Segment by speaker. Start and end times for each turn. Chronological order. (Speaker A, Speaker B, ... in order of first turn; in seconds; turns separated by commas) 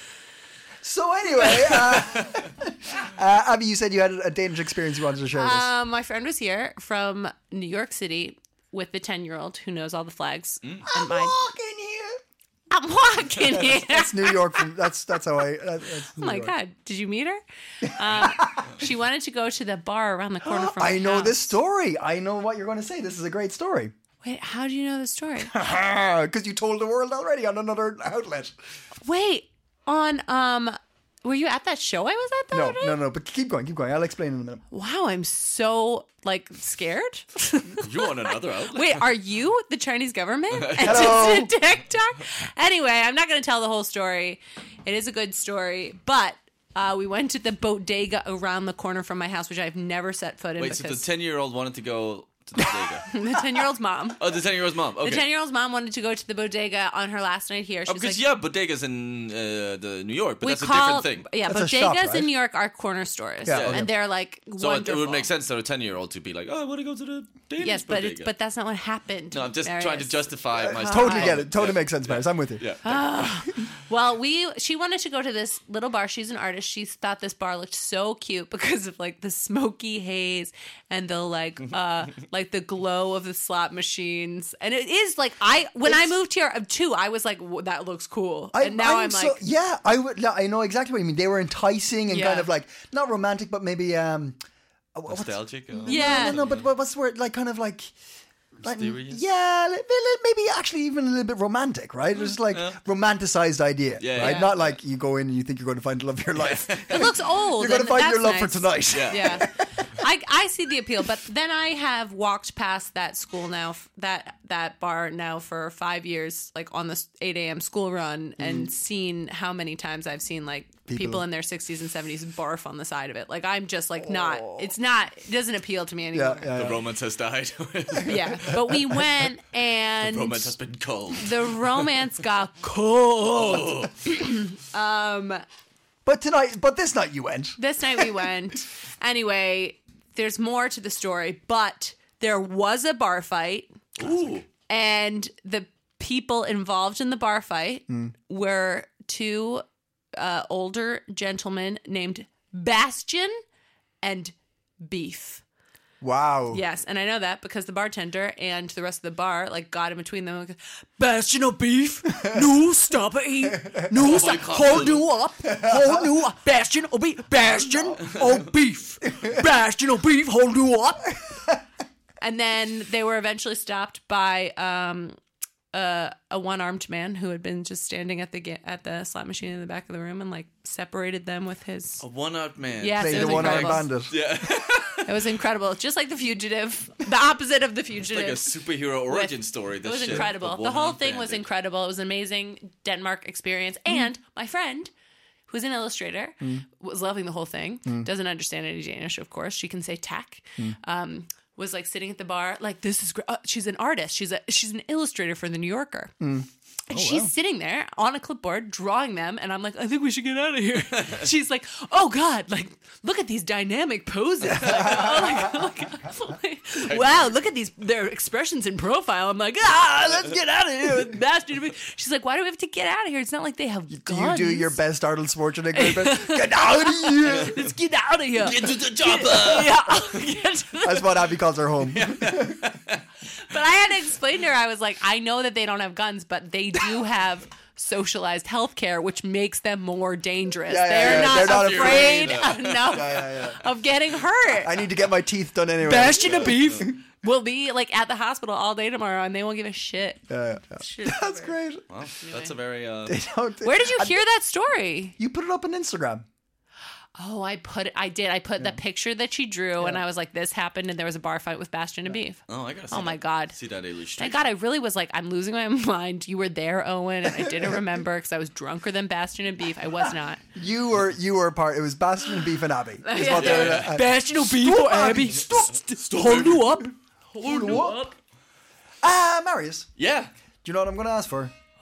Speaker A: 0.8-5.7, Speaker B: 5.3-11.4, Speaker A: 10.9-12.2, Speaker B: 12.7-14.7, Speaker A: 13.4-16.6, Speaker B: 16.2-21.6, Speaker A: 17.8-18.8, Speaker A: 20.4-23.9, Speaker B: 24.2-25.6, Speaker A: 25.4-28.6, Speaker B: 29.0-33.0, Speaker A: 32.5-34.6, Speaker B: 34.7-51.0, Speaker C: 37.8-39.1, Speaker C: 40.5-41.4, Speaker A: 40.8-41.5, Speaker C: 50.6-53.1, Speaker B: 53.1-54.3, Speaker C: 54.2-55.3, Speaker B: 55.0-58.2, Speaker C: 57.9-61.3, Speaker B: 60.4-65.3, Speaker A: 61.4-62.3, Speaker A: 63.5-63.9, Speaker C: 63.5-63.9, Speaker C: 64.6-68.3, Speaker B: 67.6-71.4, Speaker C: 69.3-73.7, Speaker A: 70.6-72.7, Speaker B: 72.8-89.4, Speaker A: 85.8-86.1, Speaker A: 88.5-94.4, Speaker B: 92.1-92.5, Speaker A: 95.0-97.9, Speaker C: 95.1-96.7, Speaker B: 95.9-96.4, Speaker A: 98.6-109.9, Speaker C: 98.6-99.2, Speaker C: 102.3-102.8, Speaker C: 104.0-104.8, Speaker B: 104.2-104.5, Speaker C: 106.4-107.0, Speaker B: 106.9-126.5, Speaker C: 108.9-109.5, Speaker A: 118.4-118.7, Speaker A: 120.9-121.2, Speaker A: 124.0-124.7, Speaker A: 126.1-126.9, Speaker C: 126.5-128.6, Speaker B: 128.0-130.6, Speaker A: 128.5-129.0, Speaker C: 130.0-131.9, Speaker B: 131.1-135.4, Speaker C: 133.3-133.9, Speaker A: 136.1-138.2, Speaker B: 137.6-149.6, Speaker C: 144.0-144.5, Speaker B: 150.2-153.4, Speaker B: 154.0-155.4, Speaker A: 156.0-156.6, Speaker B: 156.5-171.2, Speaker A: 162.1-162.4, Speaker A: 163.4-164.2, Speaker C: 164.0-165.1, Speaker A: 165.4-166.1, Speaker A: 167.4-168.2, Speaker C: 168.0-168.4, Speaker A: 169.1-169.4, Speaker A: 171.1-171.6, Speaker B: 172.2-175.2, Speaker B: 175.7-182.0, Speaker C: 182.0-185.2, Speaker B: 182.8-183.9, Speaker A: 183.0-184.2, Speaker B: 185.1-194.9, Speaker C: 188.1-191.4, Speaker B: 195.5-206.1, Speaker A: 206.2-207.3, Speaker B: 206.9-224.8, Speaker A: 214.5-215.7, Speaker C: 214.7-215.1, Speaker C: 216.9-217.4, Speaker A: 223.9-227.6, Speaker B: 225.7-231.1, Speaker C: 228.4-230.2, Speaker A: 230.8-232.8, Speaker C: 231.9-233.1, Speaker B: 233.3-244.8, Speaker A: 240.7-243.7, Speaker C: 241.0-243.2, Speaker A: 244.6-247.0, Speaker B: 245.8-251.6, Speaker C: 246.2-246.9, Speaker A: 250.3-251.8, Speaker C: 251.9-253.2, Speaker B: 252.2-252.5, Speaker A: 253.1-254.2, Speaker B: 253.6-255.2, Speaker A: 255.2-256.3, Speaker B: 257.2-263.6, Speaker C: 262.5-264.5, Speaker B: 264.2-270.4, Speaker A: 267.3-268.0, Speaker A: 270.6-276.6, Speaker B: 273.0-278.1, Speaker C: 273.3-274.0, Speaker C: 275.4-276.7, Speaker A: 277.4-278.1, Speaker C: 277.5-278.1, Speaker A: 279.0-279.9, Speaker C: 280.0-280.3, Speaker A: 280.6-281.5